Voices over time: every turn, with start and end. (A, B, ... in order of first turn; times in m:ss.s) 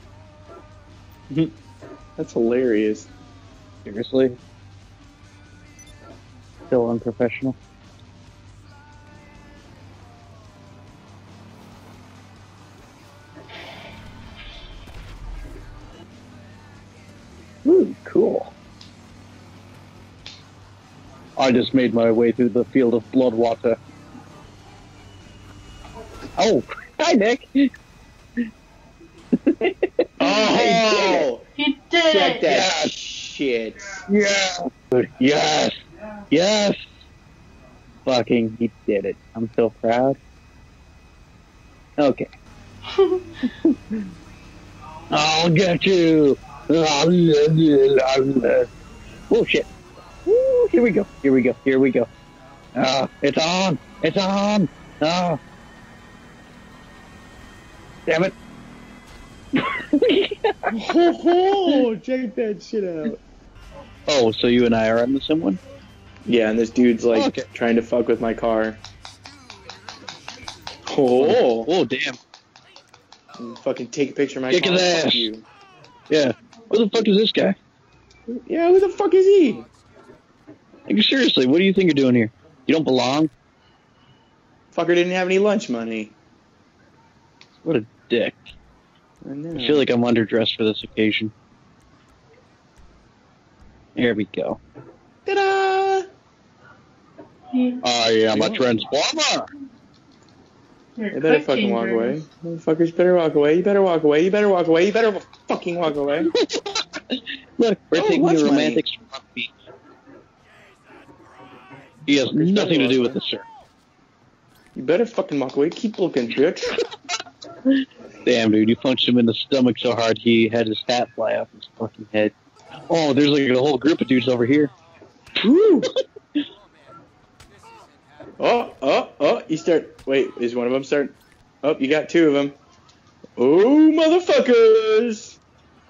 0:02.2-0:03.1 A
0:03.8-0:04.4 B
0:06.7-0:07.6 B
0:17.6-0:18.5 B
0:21.4-0:23.8 B
0:26.4-0:27.7 B
0:29.5-0:31.3 B
0:30.2-0:31.4 A
0:31.6-0:32.4 C
0:32.0-0:33.8 A
0:32.5-0:32.9 B
0:34.1-0:35.8 B
0:36.3-0:36.8 B
0:38.1-0:40.2 B
0:42.0-0:42.3 B
0:43.6-0:44.0 B
0:45.1-0:48.7 B
0:49.3-0:49.7 B
0:50.3-0:52.1 B
0:52.8-0:55.4 B
0:58.1-0:58.3 B
0:59.6-1:00.7 B
1:00.7-1:03.2 A
1:04.1-1:05.6 B
1:06.3-1:08.8 A
1:07.1-1:07.5 B
1:10.9-1:11.7 A
1:11.2-1:12.2 B
1:13.4-1:15.5 A
1:14.5-1:15.3 B
1:16.1-1:17.6 B
1:18.3-1:19.7 A
1:20.9-1:23.3 B
1:24.7-1:26.1 A
1:27.6-1:28.5 B
1:29.2-1:29.9 A
1:29.6-1:31.3 B
1:34.0-1:34.6 B
1:35.3-1:36.1 A
1:37.5-1:37.8 C
1:37.8-1:39.5 B
1:38.3-1:38.6 A
1:41.0-1:42.2 C
1:41.1-1:46.3 A
1:46.2-1:49.5 B
1:47.9-1:48.8 A
1:52.1-1:53.5 B
1:52.3-1:53.2 A
1:54.8-1:56.8 A
1:58.2-2:02.3 B
2:02.9-2:04.7 B
2:05.4-2:05.9 A
2:08.4-2:12.6 A
2:13.4-2:15.4 A